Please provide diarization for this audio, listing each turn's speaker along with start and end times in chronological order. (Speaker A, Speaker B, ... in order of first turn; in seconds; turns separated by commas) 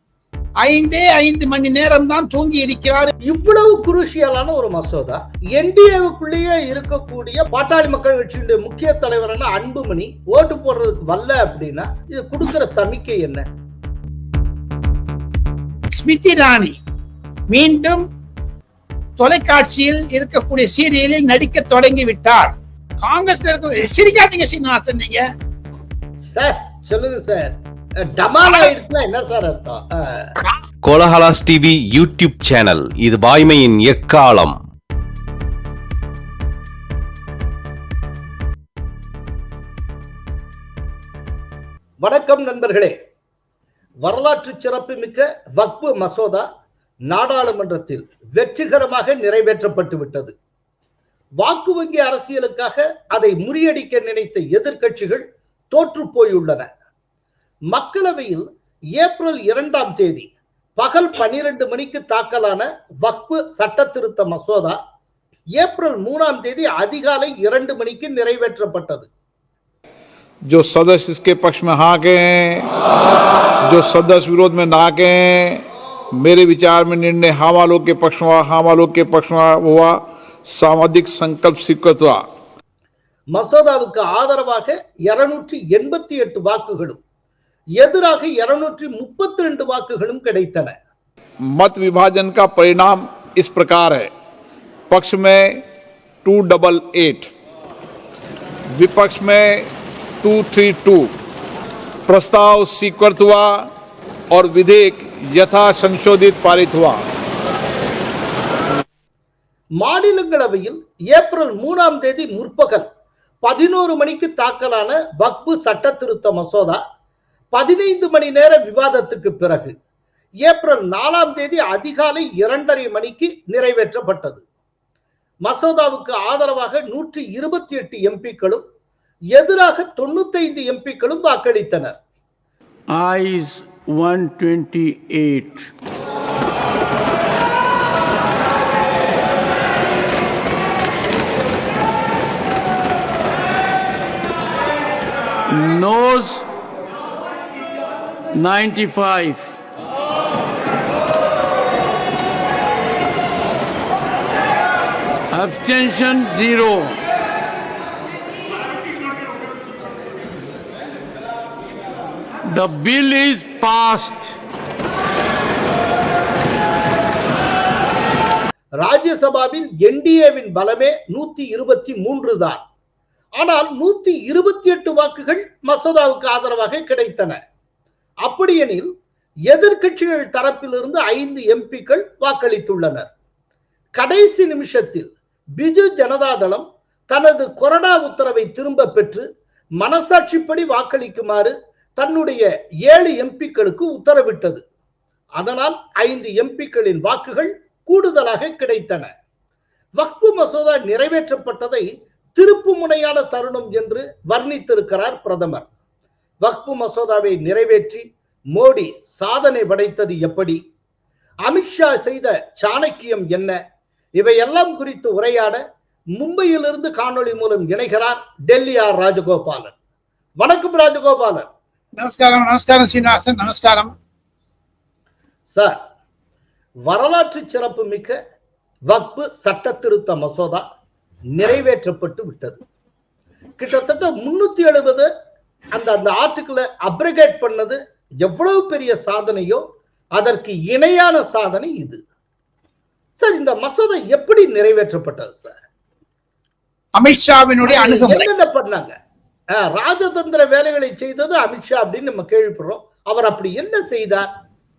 Speaker A: 0.6-3.1, Speaker B: 3.2-13.4, Speaker A: 15.9-16.8, Speaker A: 17.5-18.0, Speaker A: 19.2-25.2, Speaker B: 26.2-30.3, Speaker C: 30.8-34.6, Speaker B: 42.0-43.0, Speaker B: 44.0-46.5, Speaker B: 47.1-50.3, Speaker B: 51.4-56.7, Speaker B: 57.7-64.8, Speaker B: 65.6-69.1, Speaker D: 70.5-72.7, Speaker D: 73.6-75.6, Speaker D: 76.2-82.2, Speaker B: 83.3-87.0, Speaker B: 87.8-90.8, Speaker D: 91.5-94.1, Speaker D: 94.9-95.6, Speaker D: 96.2-97.3, Speaker D: 98.8-99.7, Speaker D: 100.2-101.1, Speaker D: 102.1-103.7, Speaker D: 104.3-107.0, Speaker B: 109.8-112.9, Speaker B: 113.4-116.8, Speaker B: 117.5-119.8, Speaker B: 120.4-124.4, Speaker B: 125.4-128.7, Speaker B: 129.3-132.0, Speaker E: 132.9-135.7, Speaker E: 145.5-146.4, Speaker E: 148.3-149.6, Speaker E: 155.3-157.0, Speaker E: 162.5-164.3, Speaker B: 168.8-172.6, Speaker B: 173.4-177.4, Speaker B: 178.2-178.9, Speaker B: 179.5-183.1, Speaker B: 183.9-189.2, Speaker B: 189.8-194.6, Speaker B: 195.4-199.1, Speaker B: 200.0-205.7, Speaker B: 206.4-210.6, Speaker B: 211.4-213.6, Speaker B: 214.2-215.6, Speaker B: 216.2-219.7, Speaker B: 220.4-221.5, Speaker A: 222.0-223.9, Speaker B: 225.5-225.8, Speaker B: 226.8-228.2, Speaker B: 228.9-230.7, Speaker B: 231.3-232.6, Speaker B: 233.6-235.1, Speaker B: 235.7-239.6, Speaker B: 240.2-242.0, Speaker B: 243.2-245.6, Speaker A: 247.0-248.3, Speaker B: 247.6-248.9, Speaker B: 249.5-254.3